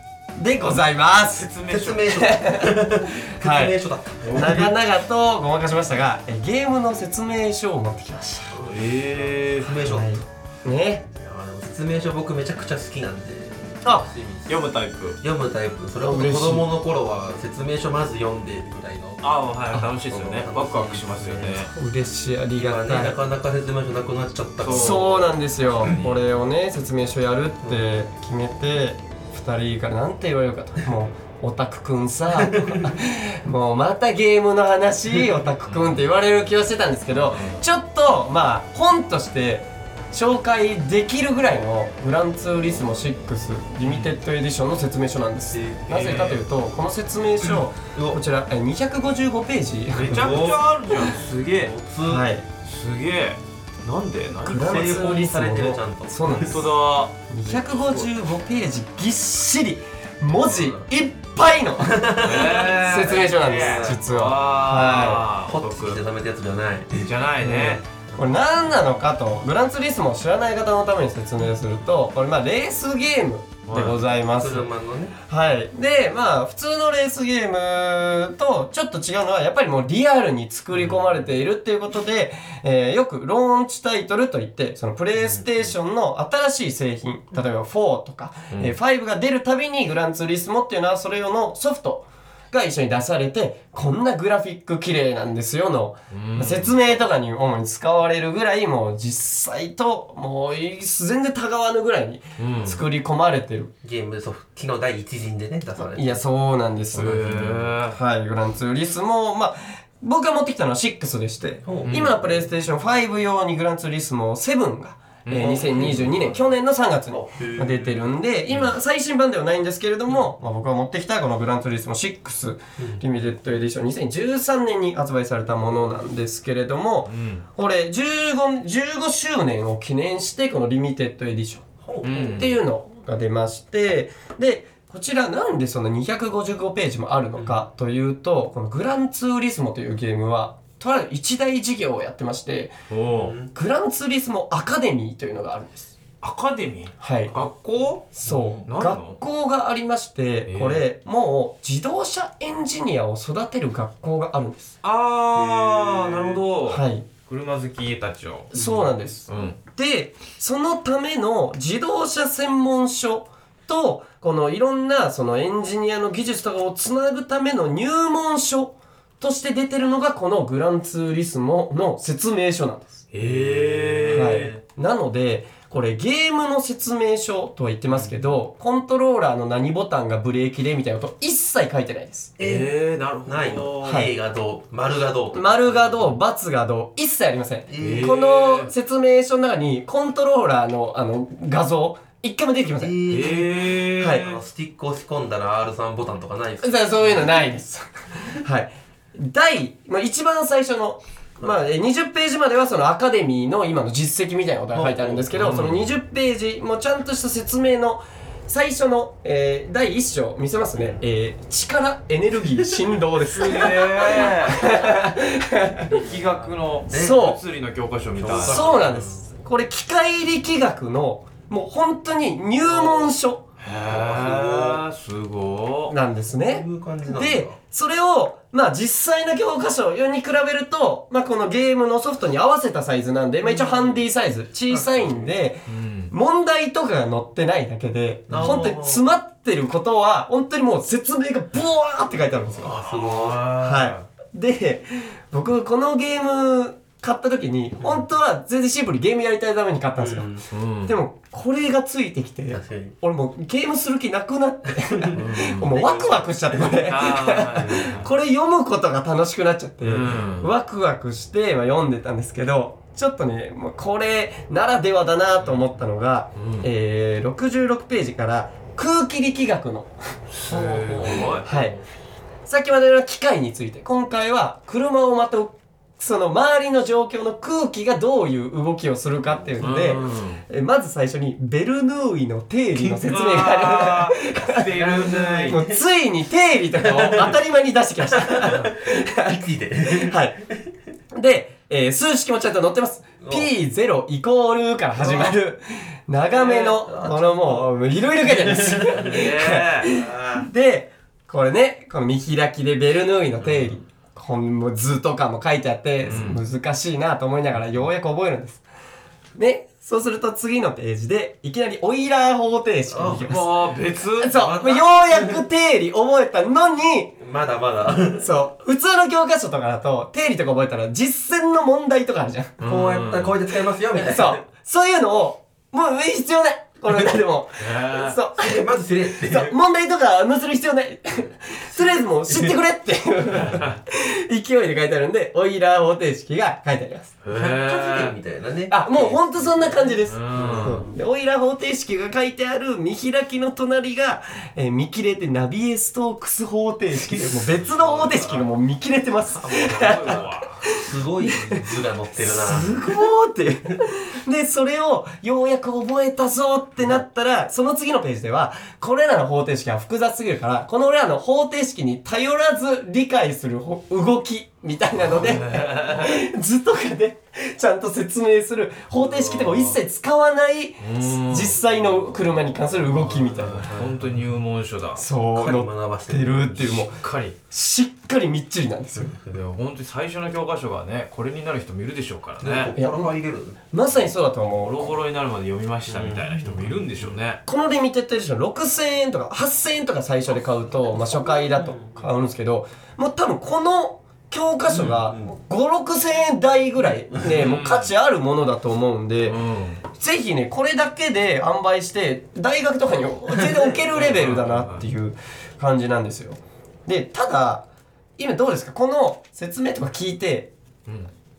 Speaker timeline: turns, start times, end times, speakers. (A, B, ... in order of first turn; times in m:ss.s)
0:00.4-0:01.5 A
0:00.6-0:02.2 B
0:01.7-0:04.7 C
0:02.1-0:03.8 A
0:04.2-0:04.7 B
0:04.3-0:08.6 A
0:08.5-0:10.2 C
0:08.6-0:09.8 B
0:09.8-0:11.1 A
0:11.1-0:14.6 C
0:13.8-0:14.1 A
0:14.5-0:15.2 B
0:15.2-0:19.3 C
0:16.0-0:16.7 A
0:19.2-0:21.7 B
0:19.9-0:21.7 C
0:21.7-0:23.2 A
0:22.6-0:26.2 C
0:24.6-0:25.3 B
0:24.7-0:50.5 A
0:27.6-0:28.0 C
0:32.3-0:33.0 C
0:35.7-0:36.1 B
0:37.1-0:37.6 B
0:43.8-0:44.2 B
0:45.5-0:46.2 C
0:45.9-0:46.4 B
0:47.9-0:48.2 C
0:50.0-0:51.8 B
0:50.0-0:52.3 C
0:52.1-0:52.5 A
0:52.6-0:55.2 B
0:54.4-0:56.7 A
0:54.6-0:56.7 C
0:56.3-0:58.1 B
0:57.3-1:05.3 A
1:00.5-1:00.8 C
1:01.8-1:04.1 C
1:02.2-1:06.0 B
1:05.0-1:07.2 C
1:07.0-1:07.8 B
1:07.4-1:14.7 A
1:08.0-1:08.4 C
1:13.7-1:14.0 B
1:14.4-1:15.2 C
1:15.3-1:43.7 A
1:20.8-1:21.1 B
1:25.2-1:25.7 C
1:36.1-1:37.0 B
1:42.4-1:42.8 B
1:43.8-1:46.2 C
1:45.8-2:22.7 A
1:46.9-1:48.0 B
1:47.0-1:47.7 C
1:51.6-1:52.4 C
1:51.8-1:52.2 B
1:55.3-1:56.3 B
1:55.4-1:56.4 C
1:57.1-1:58.0 C
2:02.8-2:03.0 C
2:07.1-2:07.4 B
2:11.8-2:12.6 C
2:12.0-2:12.6 B
2:22.9-2:23.4 B
2:23.1-2:23.5 C
2:23.5-2:25.9 A
2:26.2-2:28.2 B
2:27.0-2:27.4 A
2:28.1-2:34.8 A
2:28.3-2:28.6 C
2:28.7-2:29.2 B
2:30.5-2:30.8 B
2:34.8-2:38.5 B
2:35.3-2:36.4 C
2:36.7-2:37.1 A
2:38.5-2:53.0 A
2:38.5-2:39.0 C
2:39.3-2:39.6 B
2:53.1-2:54.5 B
2:53.2-2:54.6 C
2:54.1-3:02.4 A
3:02.4-3:02.7 C
3:02.4-3:04.1 B
3:03.2-3:06.1 C
3:03.8-3:04.1 A
3:05.3-3:13.1 A
3:07.7-3:08.2 C
3:07.8-3:08.7 B
3:12.8-3:17.3 C
3:13.1-3:14.4 B
3:14.0-3:14.3 A
3:16.6-3:35.9 A
3:24.7-3:25.7 C
3:25.3-3:25.9 B
3:30.8-3:31.0 C
3:32.6-3:32.9 C
3:33.3-3:34.8 B
3:33.6-3:34.4 C
3:35.9-3:38.8 B
3:35.9-3:37.3 C
3:36.9-3:37.4 A
3:38.1-3:39.3 C
3:38.4-3:43.4 A
3:42.7-3:45.9 B
3:43.8-3:44.8 C
3:45.9-4:02.8 A
3:46.3-3:47.6 C
3:53.4-3:54.0 C
3:54.7-3:55.3 C
3:55.7-3:56.1 B
3:58.3-3:59.0 C
3:58.3-3:58.6 B
4:02.2-4:03.9 C
4:02.8-4:04.0 B
4:03.6-4:29.9 A
4:07.8-4:08.1 C
4:10.0-4:10.4 C
4:10.5-4:11.0 B
4:12.5-4:12.9 C
4:14.7-4:18.1 C
4:15.1-4:15.8 B
4:16.8-4:18.1 B
4:19.8-4:20.5 B
4:26.4-4:26.7 B
4:30.3-4:31.7 B
4:30.5-4:31.4 C
4:31.1-4:31.8 A
4:32.5-4:44.7 A
4:39.3-4:40.1 C
4:39.6-4:40.4 B
4:42.7-4:43.4 C
4:43.1-4:45.6 B
4:44.6-4:45.8 C
4:45.5-4:50.4 A
4:46.7-4:47.4 C
4:48.0-4:50.7 C
4:51.1-5:08.6 A
4:53.2-4:53.5 C
4:55.0-4:55.4 C
4:56.3-4:59.3 C
4:59.0-4:59.9 B
4:59.8-5:00.5 C
5:03.4-5:03.7 C
5:06.0-5:06.4 B
5:09.4-5:13.5 A
5:12.9-5:13.6 C
5:13.2-5:14.4 B
5:14.2-5:17.2 A
5:14.2-5:15.4 C
5:17.2-5:18.3 C
5:18.1-5:22.6 A
5:22.6-5:23.4 B
5:22.6-5:24.4 C
5:23.9-5:37.2 A
5:27.6-5:28.2 B
5:28.4-5:29.6 C
5:31.7-5:32.6 C
5:33.3-5:33.6 C
5:33.4-5:33.8 B
5:37.2-5:38.2 B
5:37.3-5:41.0 C
5:38.7-5:51.6 A
5:40.1-5:40.8 B
5:46.9-5:48.5 C
5:49.4-5:52.9 C
5:49.4-5:50.6 B
5:52.2-6:13.7 A
6:05.0-6:06.2 B
6:09.0-6:09.8 C
6:10.8-6:11.6 B
6:12.8-6:14.3 C
6:13.7-6:15.0 B
6:15.0-6:19.2 A
6:15.3-6:16.9 C
6:17.0-6:17.4 B
6:19.0-6:19.4 C
6:19.2-6:22.8 B
6:22.4-6:23.6 C
6:22.8-6:23.1 A
6:23.7-6:24.9 A
6:24.4-6:27.4 B
6:25.9-6:27.2 C
6:27.5-6:47.6 A
6:30.3-6:32.1 C
6:34.7-6:35.4 C
6:37.3-6:37.9 B
6:39.2-6:39.8 B
6:43.3-6:44.0 C
6:44.0-6:44.9 B
6:48.2-6:50.5 A